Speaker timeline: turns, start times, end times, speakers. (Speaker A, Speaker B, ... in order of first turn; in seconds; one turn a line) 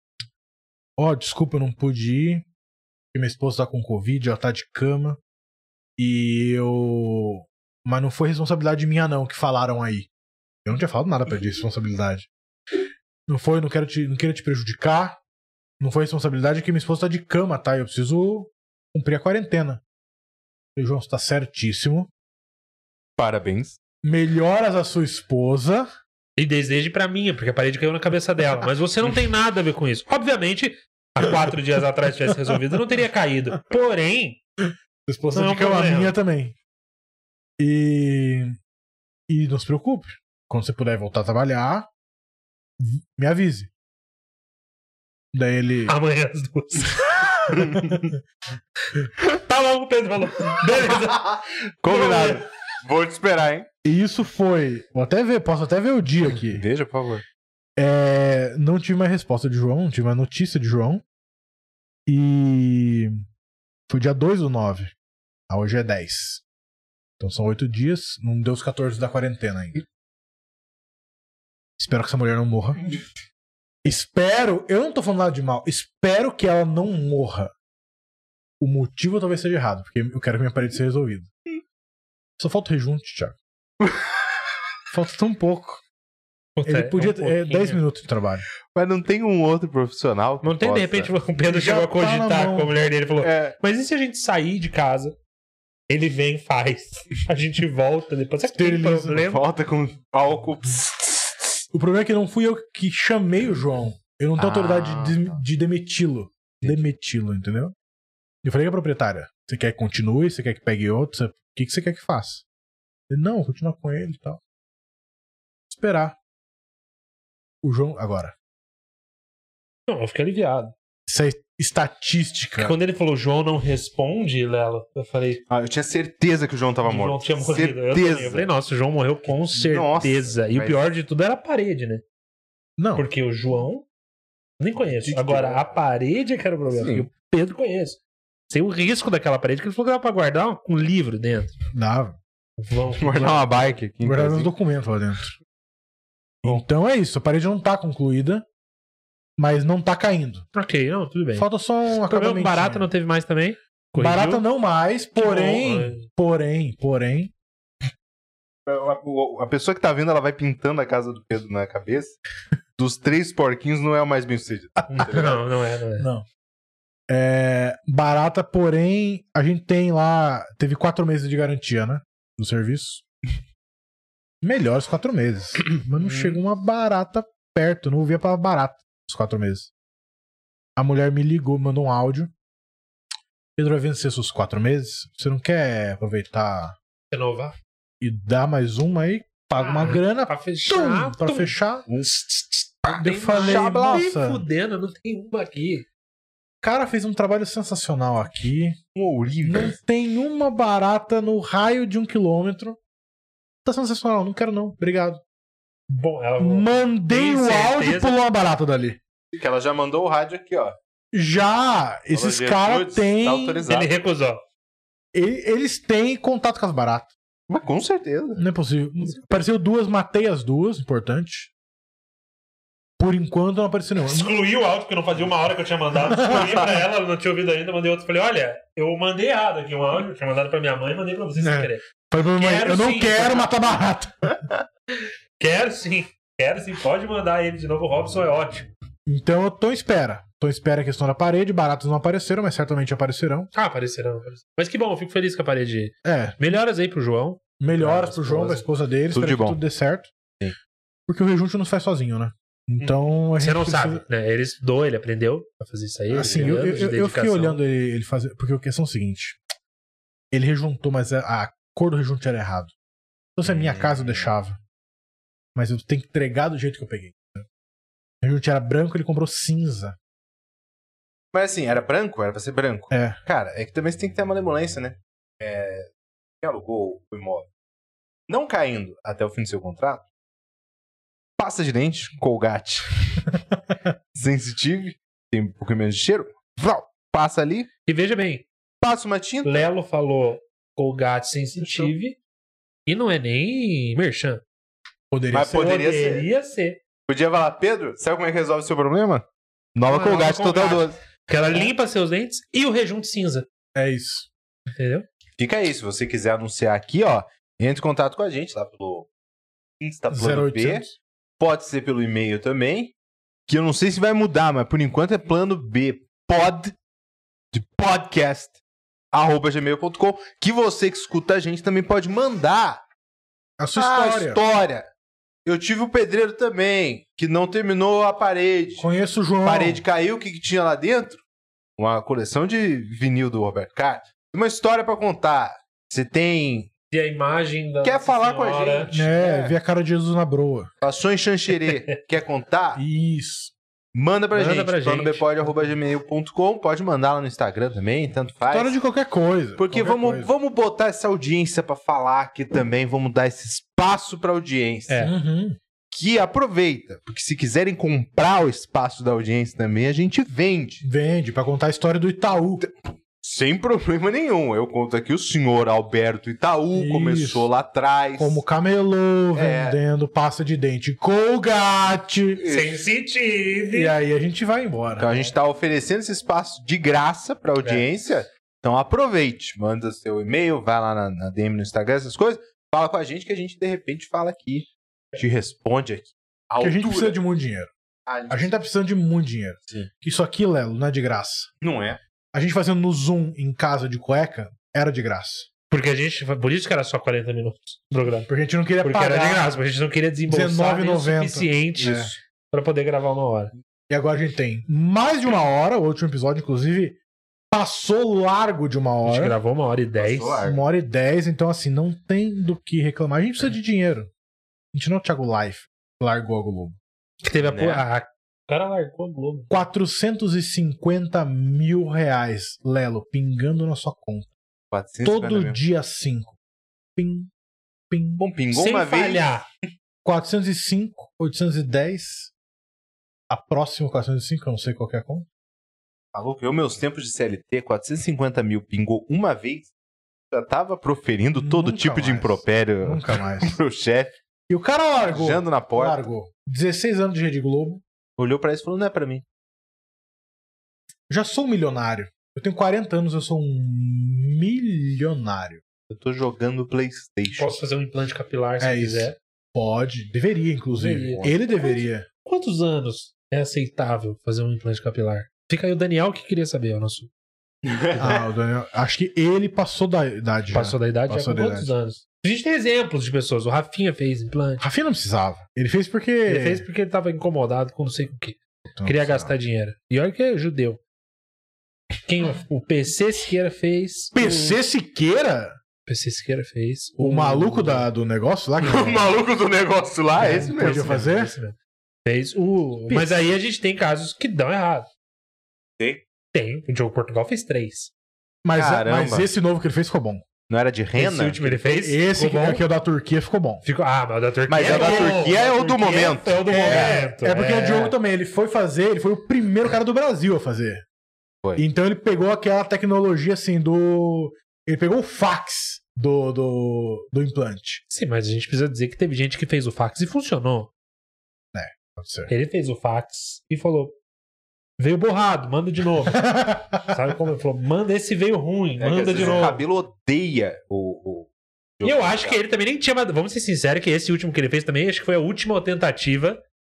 Speaker A: 1.0-2.5
Speaker A: 3.1-5.2
Speaker A: 6.0-10.1
Speaker A: 10.6-12.3
Speaker A: 13.3-15.2
Speaker A: 15.8-19.8
Speaker A: 20.8-22.1
Speaker B: 23.2-23.8
Speaker A: 24.0-25.9
Speaker C: 26.4-34.4
Speaker A: 35.0-36.5
Speaker C: 35.3-36.1
Speaker A: 37.6-38.6
Speaker A: 39.3-41.9
Speaker A: 42.8-43.7
Speaker A: 45.3-45.9
Speaker C: 45.9-47.8
Speaker B: 47.5-47.9
Speaker A: 47.8-48.1
Speaker C: 49.3-51.3
Speaker B: 50.9-53.7
Speaker C: 51.9-52.4
Speaker A: 53.8-56.6
Speaker B: 56.5-57.2
Speaker A: 57.8-61.0
Speaker A: 62.0-63.1
Speaker A: 63.9-64.9
Speaker A: 65.5-66.4
Speaker A: 67.2-69.8
Speaker A: 71.8-72.8
Speaker A: 73.8-77.5
Speaker A: 78.6-81.3
Speaker A: 82.4-83.4
Speaker A: 84.9-85.8
Speaker C: 86.5-87.8
Speaker A: 86.6-88.4
Speaker B: 88.7-91.1
Speaker C: 90.4-95.2
Speaker A: 91.5-92.7
Speaker B: 93.2-93.5
Speaker C: 95.9-99.4
Speaker A: 98.5-99.2
Speaker B: 99.2-101.4
Speaker A: 101.7-107.7
Speaker B: 104.4-105.4
Speaker A: 108.4-112.4
Speaker A: 113.1-114.4
Speaker A: 115.7-116.2
Speaker A: 117.6-118.3
Speaker C: 119.9-120.7
Speaker A: 121.1-122.8
Speaker C: 122.6-125.4
Speaker B: 125.5-128.5
Speaker C: 126.8-132.0
Speaker B: 129.5-130.8
Speaker A: 132.8-133.0
Speaker C: 132.9-133.8
Speaker C: 134.6-141.5
Speaker B: 135.0-135.7
Speaker B: 136.7-137.1
Speaker A: 141.7-142.2
Speaker C: 142.6-143.8
Speaker B: 143.0-144.5
Speaker A: 144.0-145.3
Speaker A: 146.4-148.4
Speaker A: 149.4-150.4
Speaker C: 150.5-154.4
Speaker A: 151.3-152.9
Speaker A: 154.0-157.3
Speaker C: 155.2-156.1
Speaker B: 158.7-162.2
Speaker B: 162.8-165.4
Speaker C: 164.9-166.1
Speaker A: 166.0-166.2
Speaker A: 167.1-173.0
Speaker A: 174.4-179.7
Speaker A: 180.8-182.3
Speaker A: 183.6-186.8
Speaker C: 187.1-187.6
Speaker A: 188.0-191.9
Speaker C: 189.6-191.5
Speaker B: 191.9-192.2
Speaker C: 192.3-195.8
Speaker B: 192.8-194.1
Speaker A: 192.9-194.4
Speaker A: 196.6-198.8
Speaker B: 198.9-199.7
Speaker A: 199.4-202.8
Speaker A: 203.6-205.2
Speaker C: 205.9-208.2
Speaker A: 206.4-209.0
Speaker B: 209.3-210.8
Speaker A: 211.1-213.6
Speaker B: 212.1-213.9
Speaker C: 213.7-214.4
Speaker A: 215.1-217.1
Speaker B: 217.5-218.4
Speaker A: 218.3-221.5
Speaker A: 223.0-224.3
Speaker C: 224.0-233.5
Speaker A: 226.1-226.6
Speaker A: 231.4-234.4
Speaker C: 235.4-238.7
Speaker A: 239.1-243.5
Speaker C: 243.5-248.6
Speaker A: 246.0-246.4
Speaker A: 247.6-250.1
Speaker B: 249.1-249.6
Speaker A: 251.1-254.0
Speaker C: 252.8-257.6
Speaker A: 256.1-259.4
Speaker B: 256.2-256.8
Speaker A: 260.3-262.7
Speaker A: 263.4-264.6
Speaker B: 263.4-264.2
Speaker A: 265.5-267.4
Speaker A: 268.2-269.9
Speaker B: 271.3-275.9
Speaker A: 272.9-273.2
Speaker B: 276.4-277.5
Speaker B: 278.3-280.0
Speaker B: 281.4-283.3
Speaker B: 284.1-287.7
Speaker C: 287.9-288.4
Speaker B: 288.8-289.6
Speaker C: 289.4-292.2
Speaker B: 291.6-291.9
Speaker C: 292.9-294.4
Speaker A: 295.1-295.7
Speaker B: 295.3-296.3
Speaker C: 295.5-296.8
Speaker B: 297.1-301.0
Speaker C: 299.9-303.5
Speaker A: 303.7-304.3
Speaker C: 304.7-305.1
Speaker B: 305.4-309.1
Speaker B: 309.8-310.9
Speaker A: 310.1-310.9
Speaker B: 311.4-312.9
Speaker B: 313.5-316.7
Speaker B: 317.5-318.6
Speaker B: 319.1-322.8
Speaker A: 323.6-324.4
Speaker B: 323.7-324.9
Speaker B: 325.4-328.9
Speaker A: 328.8-329.8
Speaker B: 329.4-331.2
Speaker B: 331.8-336.7
Speaker C: 336.9-338.9
Speaker B: 337.8-339.5
Speaker A: 338.9-340.7
Speaker B: 340.8-342.8
Speaker A: 342.8-343.5
Speaker B: 343.9-348.7
Speaker C: 344.3-345.2
Speaker A: 348.5-350.3
Speaker B: 349.6-355.0
Speaker C: 354.9-355.1
Speaker A: 355.0-355.6
Speaker B: 355.9-360.8
Speaker A: 360.8-362.6
Speaker B: 362.6-368.4
Speaker A: 366.7-367.5
Speaker A: 368.2-372.4
Speaker B: 369.3-369.8
Speaker B: 372.4-372.8
Speaker C: 372.5-373.9
Speaker A: 373.7-375.2
Speaker B: 375.0-387.2
Speaker A: 386.6-387.7
Speaker B: 388.1-388.5
Speaker A: 388.3-391.5
Speaker B: 391.6-392.0
Speaker A: 392.3-395.5
Speaker C: 395.7-398.3
Speaker A: 398.3-399.5
Speaker C: 398.8-403.5
Speaker A: 400.3-402.1
Speaker A: 403.9-407.0
Speaker A: 407.5-409.4
Speaker C: 409.0-410.4
Speaker B: 409.9-410.6
Speaker A: 410.4-414.1
Speaker A: 414.7-416.8
Speaker C: 417.2-419.6
Speaker B: 417.4-417.8
Speaker A: 419.5-424.3
Speaker B: 424.7-425.6
Speaker A: 425.0-426.4
Speaker A: 426.9-427.3
Speaker A: 427.9-428.2
Speaker B: 428.2-429.3
Speaker C: 428.5-429.4
Speaker A: 430.0-432.3
Speaker A: 433.3-435.3
Speaker B: 436.1-439.7
Speaker B: 440.3-444.2
Speaker A: 441.4-443.5
Speaker A: 444.5-447.8
Speaker B: 445.1-446.0
Speaker B: 448.2-449.2
Speaker A: 451.1-455.6
Speaker B: 455.9-457.6
Speaker C: 457.3-459.2
Speaker A: 458.6-462.1
Speaker C: 460.7-467.1
Speaker B: 467.6-468.2
Speaker A: 467.9-471.7
Speaker C: 470.5-474.6
Speaker A: 474.6-476.6
Speaker C: 476.2-480.8
Speaker A: 478.8-479.3
Speaker C: 482.1-484.6
Speaker A: 484.1-485.6
Speaker C: 485.9-487.9
Speaker A: 487.0-489.1
Speaker B: 488.6-491.0
Speaker A: 490.2-491.3
Speaker C: 490.2-494.9
Speaker A: 492.9-493.1
Speaker C: 496.3-497.9
Speaker A: 498.4-500.2
Speaker B: 498.5-499.3
Speaker B: 500.5-501.6
Speaker C: 500.9-502.6
Speaker A: 501.5-503.6
Speaker C: 503.6-507.9
Speaker B: 504.5-507.0
Speaker A: 504.6-505.2
Speaker A: 506.5-510.8
Speaker A: 511.6-517.8
Speaker C: 517.9-520.7
Speaker A: 521.5-522.3
Speaker C: 522.3-524.0
Speaker C: 524.8-529.6
Speaker A: 526.1-526.9
Speaker B: 528.8-532.4
Speaker A: 529.1-529.5
Speaker C: 531.8-536.4